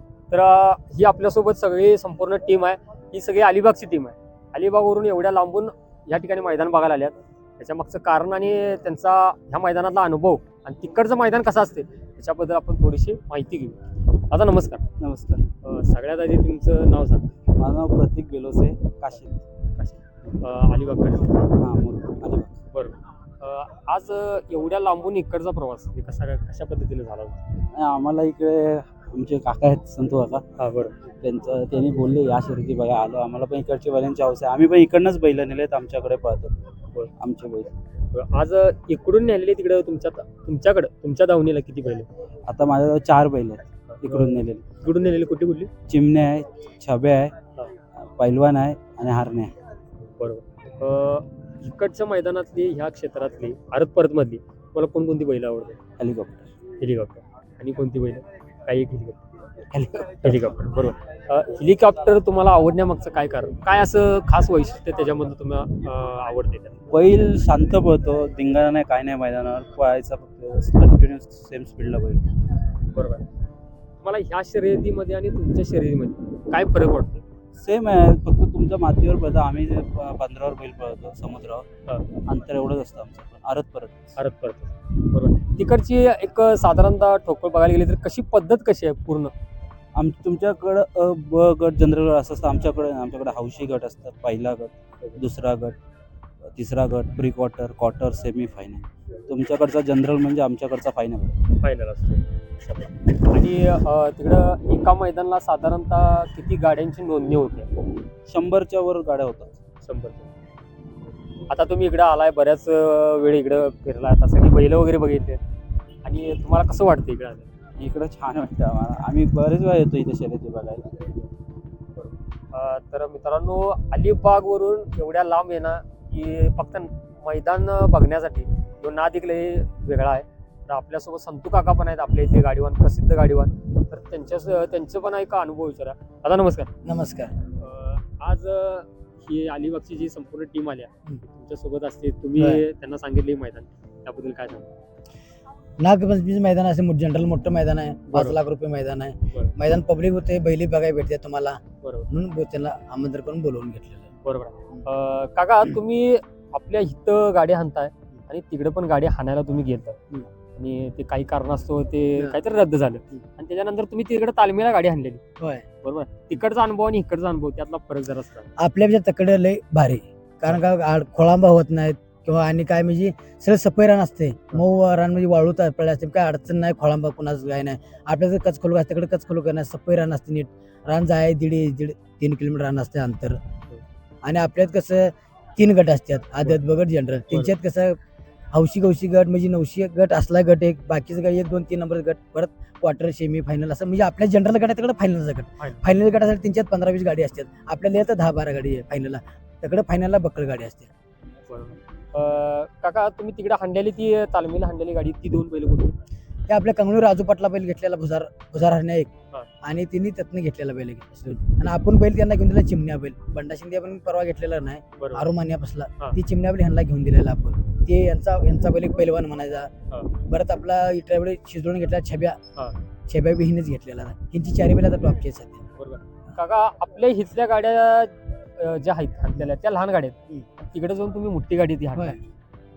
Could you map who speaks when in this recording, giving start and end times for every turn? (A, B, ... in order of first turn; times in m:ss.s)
0:00.3-0:14.8 A
0:15.0-0:15.5 B
0:15.6-0:17.3 A
0:17.6-0:19.4 B
0:19.8-0:21.5 A
0:21.6-0:22.5 B
0:22.7-0:27.4 A
0:27.7-0:30.4 B
0:30.6-0:30.9 A
0:31.2-0:36.6 B
0:37.2-0:37.7 B
0:38.1-0:42.1 A
0:42.5-0:44.6 B
0:43.9-0:45.7 A
0:45.9-0:47.3 B
0:48.1-0:49.5 B
0:50.1-0:55.8 A
0:56.0-0:56.5 B
0:56.8-0:59.2 A
0:59.7-1:00.5 B
1:00.2-1:06.9 A
1:06.9-1:12.4 B
1:12.8-1:13.3 A
1:14.0-1:17.2 A
1:17.6-1:21.6 B
1:22.3-1:24.2 B
1:24.2-1:29.3 A
1:30.0-1:35.8 B
1:36.5-1:41.4 B
1:41.6-1:47.7 A
1:48.3-1:49.5 B
1:49.8-1:50.3 A
1:51.5-1:55.4 A
1:56.0-1:57.5 A
1:57.8-2:01.1 B
2:02.0-2:16.7 A
2:16.8-2:17.3 C
2:17.5-2:24.7 A
2:22.4-2:22.6 C
2:25.8-2:34.1 C
2:28.1-2:28.4 A
2:31.8-2:32.1 A
2:34.2-2:40.0 A
2:40.6-2:45.2 A
2:45.4-2:45.7 C
2:45.8-2:48.5 A
2:48.6-3:03.4 C
3:04.2-3:08.0 C
3:08.5-3:20.9 C
3:21.5-3:26.0 A
3:26.5-3:42.4 C
3:35.0-3:35.3 A
3:43.1-3:45.6 C
3:45.8-3:52.2 A